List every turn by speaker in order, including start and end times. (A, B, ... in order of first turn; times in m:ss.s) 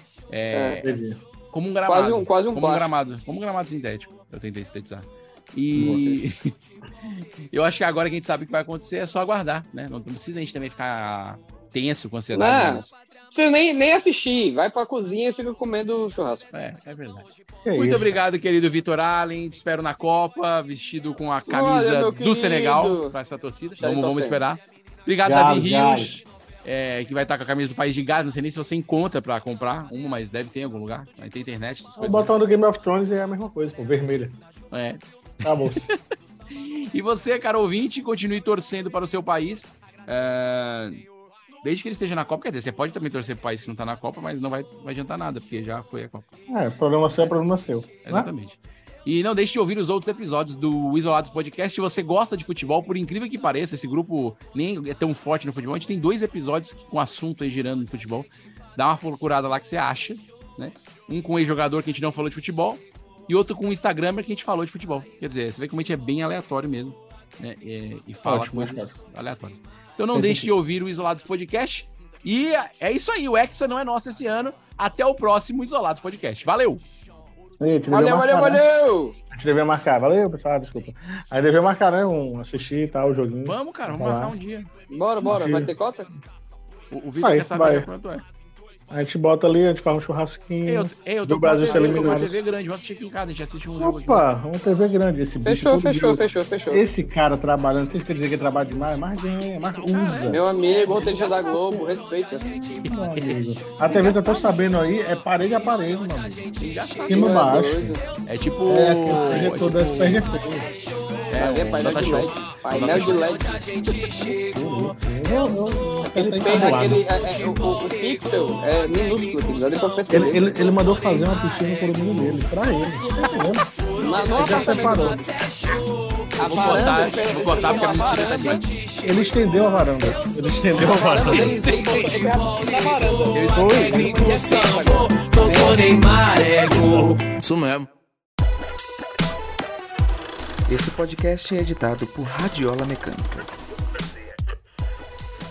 0:00.3-0:00.9 A
0:00.5-0:00.8 B
0:00.8-0:01.2 C
0:01.5-0:12.9 A
0:01.9-0:02.9 B
0:05.7-0:06.2 C
0:12.3-0:16.4 B
0:16.5-0:32.3 A
0:17.6-0:18.2 C
0:21.5-0:23.1 B
0:23.8-0:24.5 B
0:25.2-0:26.2 C
0:32.0-0:34.4 C
0:34.7-0:36.0 A
0:35.4-0:35.9 C
0:36.5-0:41.0 A
0:41.6-0:46.2 A
0:46.5-0:48.3 C
0:48.0-1:16.8 A
1:08.2-1:08.9 C
1:10.1-1:10.5 C
1:17.6-1:18.6 C
1:17.9-1:19.2 B
1:19.3-1:24.3 C
1:23.4-1:24.7 A
1:24.9-1:26.1 B
1:25.2-1:25.7 C
1:26.9-1:28.2 A
1:27.2-1:27.9 C
1:28.9-1:32.4 C
1:30.6-1:34.2 A
1:31.6-1:32.2 B
1:33.8-1:40.4 C
1:35.4-1:36.8 B
1:39.7-1:41.9 A
1:40.3-1:42.4 B
1:42.4-1:46.4 C
1:42.8-1:44.6 A
1:46.6-1:47.4 A
1:47.1-1:48.0 C
1:47.1-1:48.0 B
1:48.2-1:50.3 A
1:48.7-1:50.7 C
1:51.3-1:53.3 A
1:51.4-1:53.6 B
1:54.3-1:57.0 C
1:56.0-2:00.4 B
2:00.1-2:03.6 C
2:04.0-2:05.3 B
2:04.3-2:05.3 C
2:06.4-2:08.6 B
2:06.4-2:08.6 A
2:09.0-2:11.6 C
2:10.8-2:16.0 B
2:11.2-2:12.5 A
2:13.3-2:17.9 A
2:13.5-2:14.1 C
2:16.7-2:17.1 C
2:20.7-2:23.5 D